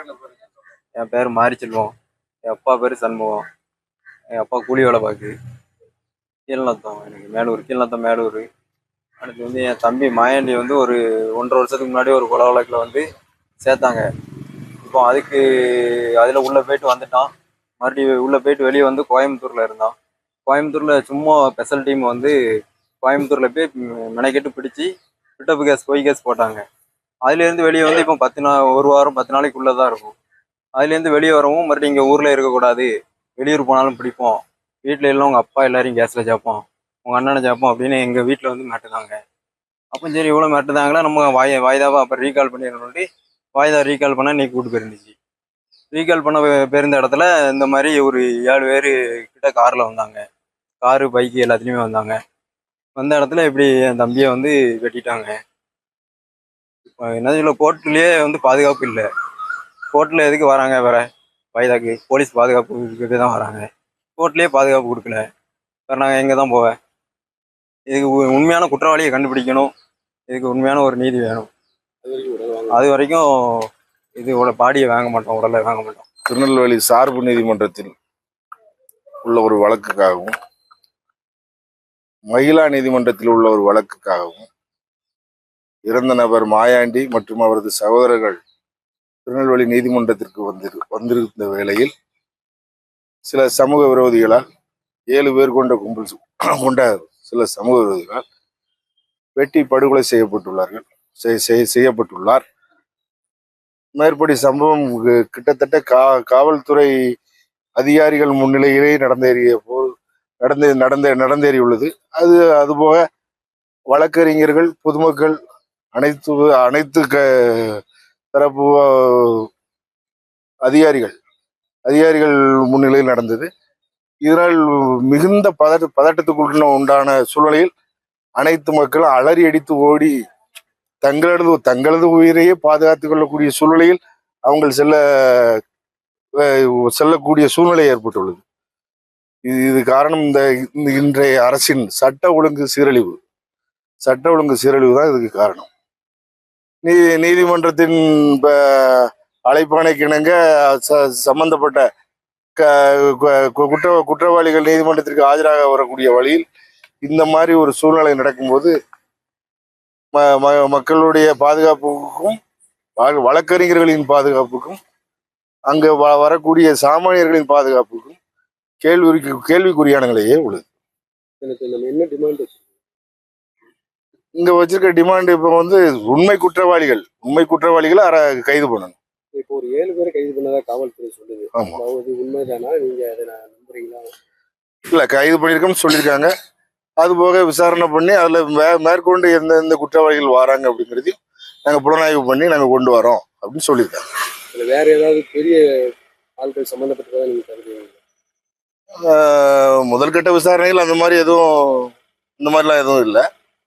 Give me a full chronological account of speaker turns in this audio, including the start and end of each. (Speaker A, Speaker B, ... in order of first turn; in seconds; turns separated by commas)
Speaker A: 1.0-1.9, Speaker A: 2.5-3.4, Speaker A: 4.3-5.3, Speaker A: 6.5-8.4, Speaker A: 9.2-13.0, Speaker A: 13.6-14.0, Speaker A: 14.9-17.3, Speaker A: 17.8-19.9, Speaker A: 20.4-22.3, Speaker A: 23.0-26.6, Speaker A: 27.2-30.1, Speaker A: 30.8-39.2, Speaker A: 39.9-45.1, Speaker A: 45.9-50.2, Speaker A: 50.8-52.2, Speaker A: 53.0-55.4, Speaker A: 56.9-59.0, Speaker A: 59.9-63.6, Speaker A: 64.2-65.2, Speaker A: 65.9-66.7, Speaker A: 67.9-69.7, Speaker A: 70.3-71.5, Speaker B: 72.0-72.8, Speaker A: 72.7-73.2, Speaker A: 74.2-76.0, Speaker C: 76.3-77.9, Speaker C: 79.2-80.3, Speaker C: 82.3-84.5, Speaker C: 85.9-88.4, Speaker C: 89.2-91.9, Speaker C: 93.2-94.4, Speaker C: 95.1-98.2, Speaker C: 99.3-102.4, Speaker C: 104.0-106.9, Speaker C: 107.8-109.9, Speaker C: 110.4-113.0, Speaker C: 113.9-115.3, Speaker C: 115.9-117.8, Speaker C: 118.3-119.5, Speaker C: 120.6-121.2, Speaker C: 121.8-123.5, Speaker C: 124.2-127.7, Speaker C: 128.4-130.1, Speaker C: 131.0-135.6, Speaker C: 136.4-138.4, Speaker C: 139.4-143.2, Speaker C: 144.0-145.7, Speaker C: 146.8-151.8, Speaker C: 152.6-156.4, Speaker C: 157.0-158.7, Speaker C: 160.2-162.4, Speaker C: 163.0-164.8, Speaker C: 165.7-168.2, Speaker C: 168.8-170.6, Speaker B: 171.4-172.6, Speaker C: 174.4-178.9, Speaker B: 179.3-184.1, Speaker C: 184.9-186.3, Speaker C: 187.0-194.0, Speaker B: 194.5-195.6, Speaker B: 196.4-198.0, Speaker C: 198.9-203.2